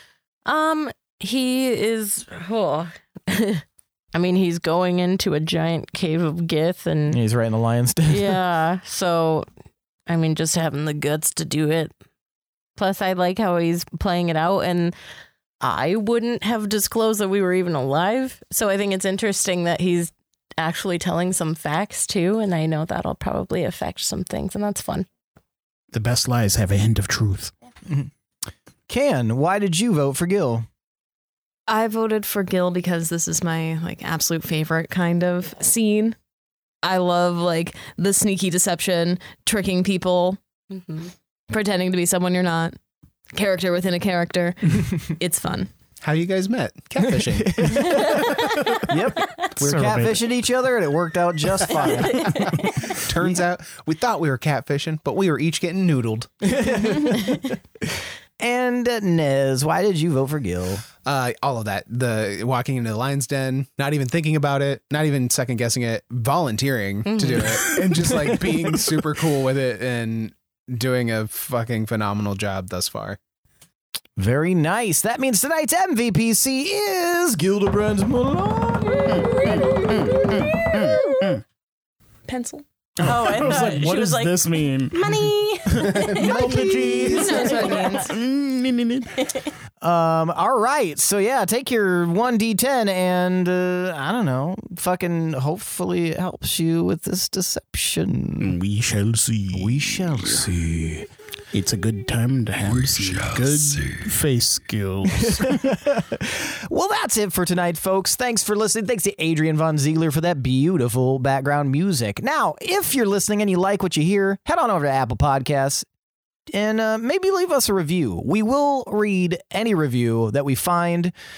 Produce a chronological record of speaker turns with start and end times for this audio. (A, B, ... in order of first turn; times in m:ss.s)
0:00.5-0:07.2 A
0:07.1-0:08.4 B
0:08.1-0:09.5 A
0:10.1-0:11.9 A
0:12.8-0:14.9 A
0:15.6-0:25.1 A
0:25.9-0:27.5 C
0:28.9-0:30.6 B
0:31.7-0:36.2 D
0:36.8-0:40.4 D
0:41.5-0:42.8 D
0:43.3-0:45.7 D
0:46.0-0:48.2 E
0:47.0-0:52.6 B
0:47.7-0:48.8 A
0:49.6-0:50.3 C
0:51.8-0:52.6 A
0:53.0-0:56.3 E
0:56.4-1:00.9 B
1:01.0-1:13.2 E
1:07.1-1:07.7 A
1:14.2-1:19.6 B
1:19.1-1:21.4 C
1:19.2-1:21.0 A
1:22.3-1:22.6 D
1:23.0-1:29.3 C
1:23.0-1:28.0 A
1:26.1-1:28.1 D
1:29.8-1:38.6 B
1:38.4-1:40.5 C
1:39.5-1:41.1 B
1:41.5-1:45.8 C
1:45.1-1:55.9 B
1:56.5-2:01.1 B